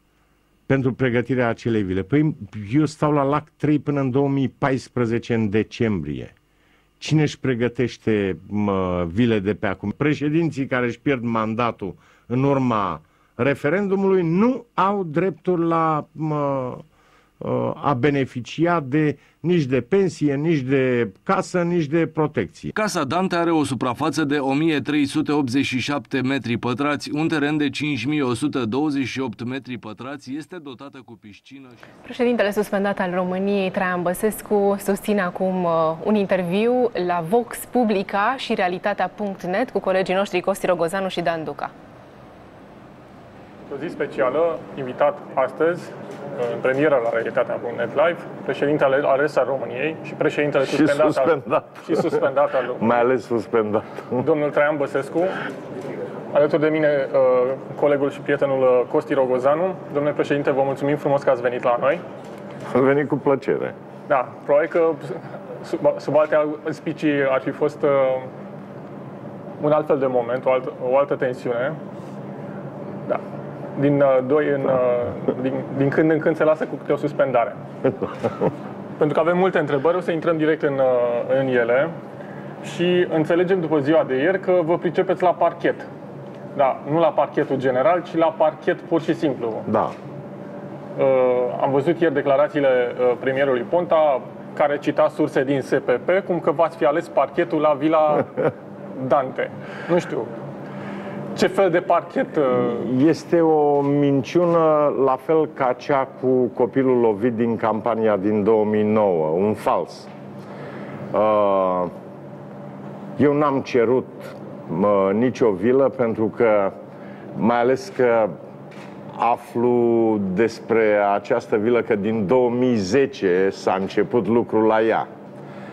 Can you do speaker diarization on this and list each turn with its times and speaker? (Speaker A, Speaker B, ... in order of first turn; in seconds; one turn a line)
Speaker A: 0.7-6.3
Speaker A: 7.0-16.8
Speaker A: 17.4-22.7
Speaker B: 22.7-31.8
Speaker C: 32.0-41.7
Speaker D: 43.7-53.0
Speaker A: 50.6-52.3
Speaker A: 52.8-54.2
Speaker D: 54.2-55.4
Speaker D: 56.3-62.0
Speaker A: 62.7-63.8
Speaker D: 64.1-68.3
Speaker D: 69.6-71.8
Speaker D: 73.8-77.6
Speaker D: 79.0-82.0
Speaker D: 82.6-85.9
Speaker D: 86.5-89.7
Speaker A: 89.7-89.9
Speaker D: 91.0-98.3
Speaker D: 99.0-100.3
Speaker D: 101.3-102.8
Speaker A: 102.5-110.1
Speaker A: 111.1-111.9
Speaker A: 113.2-116.7
Speaker A: 117.3-118.3
Speaker A: 119.2-125.1